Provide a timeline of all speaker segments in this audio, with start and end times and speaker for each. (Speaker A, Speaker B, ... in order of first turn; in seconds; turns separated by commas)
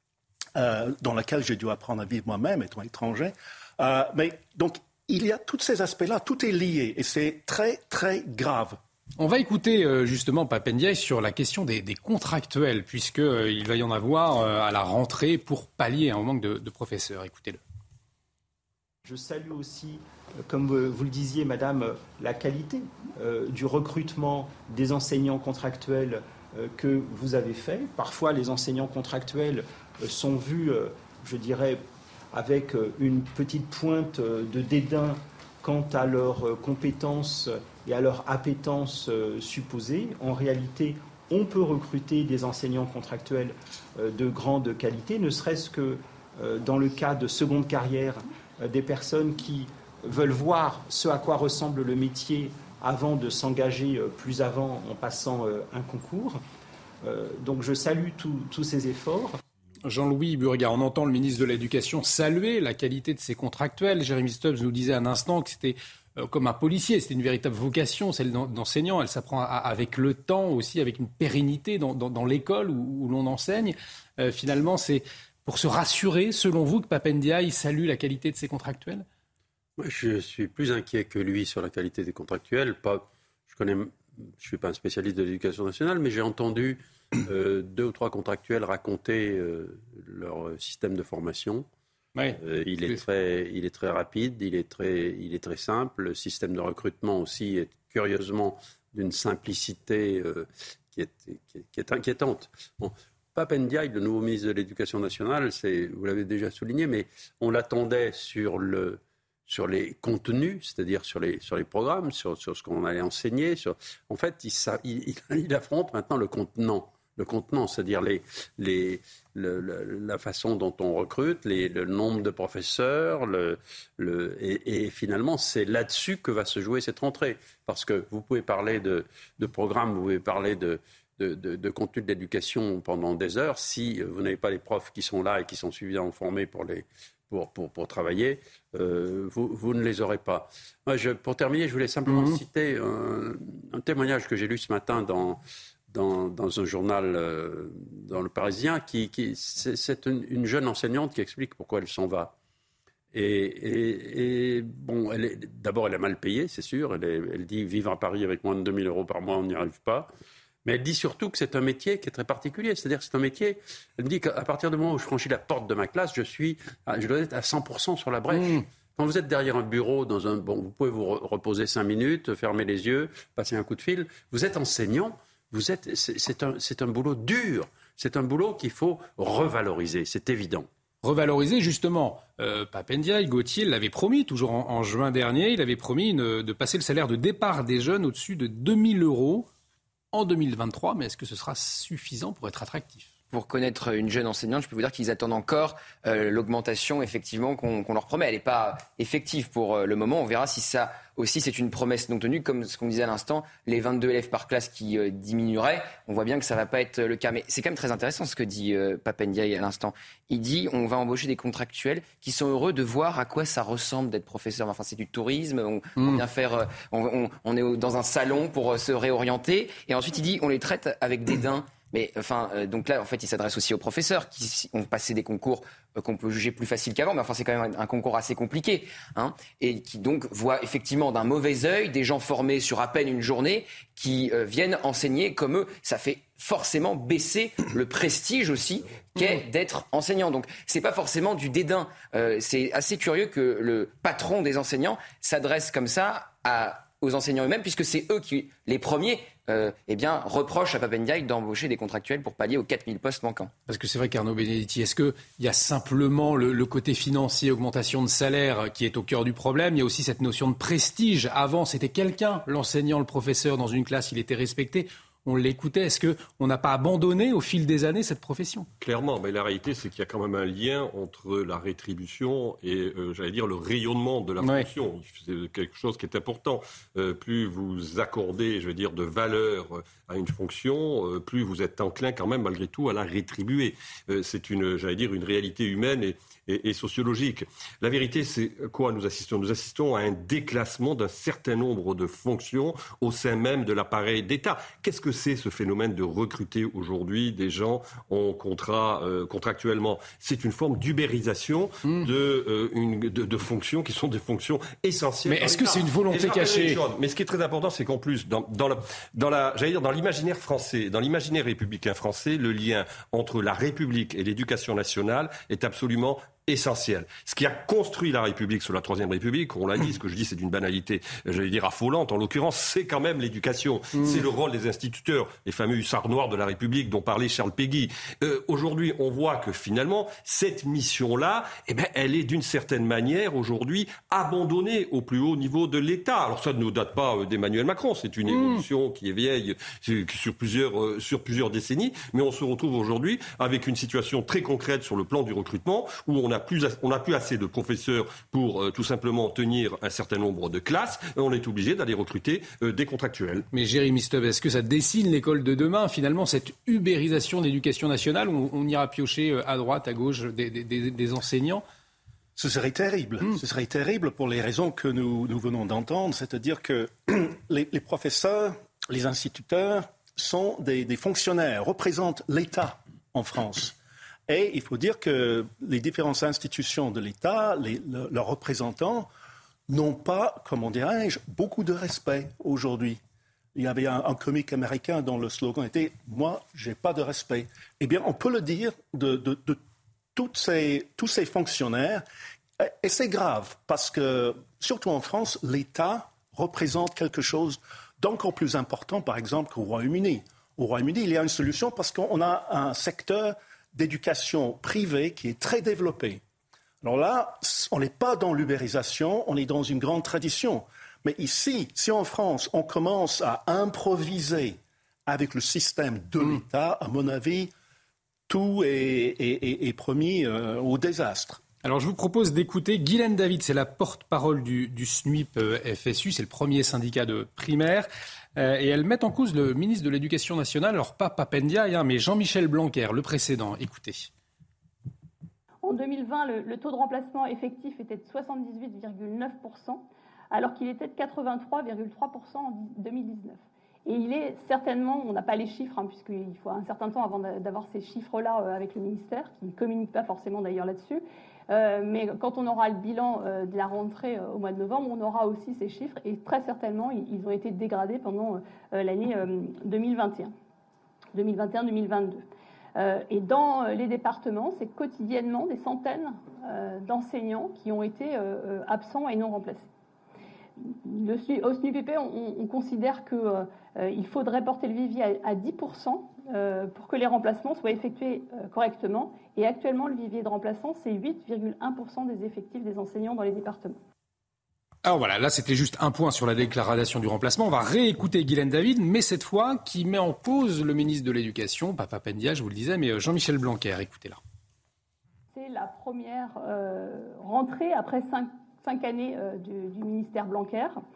Speaker A: 0.6-8.8, Speaker B: 9.2-17.6, Speaker C: 19.1-31.8, Speaker C: 32.3-56.4, Speaker C: 57.0-59.4, Speaker B: 59.8-79.0, Speaker D: 79.8-91.7, Speaker B: 92.2-93.0, Speaker D: 92.3-145.4, Speaker B: 142.1-142.4, Speaker D: 145.9-152.3, Speaker D: 153.1-160.1, Speaker D: 160.6-180.7, Speaker B: 168.3-168.6, Speaker B: 181.0-189.5, Speaker B: 190.1-193.1, Speaker E: 193.3-253.5, Speaker B: 253.7-268.7, Speaker F: 268.8-353.5, Speaker B: 274.4-274.7, Speaker B: 305.3-306.8, Speaker B: 323.9-324.2, Speaker B: 338.3-338.6, Speaker B: 353.5-361.6, Speaker A: 362.4-373.7, Speaker A: 374.3-379.1, Speaker A: 379.7-383.0, Speaker A: 383.6-389.6, Speaker A: 390.1-392.0, Speaker A: 392.6-406.2, Speaker A: 406.8-417.5, Speaker A: 418.3-421.4, Speaker B: 421.6-434.1, Speaker G: 435.6-460.3, Speaker G: 461.1-462.2, Speaker G: 462.8-469.7, Speaker G: 470.6-483.8, Speaker B: 484.8-494.2, Speaker G: 495.3-500.8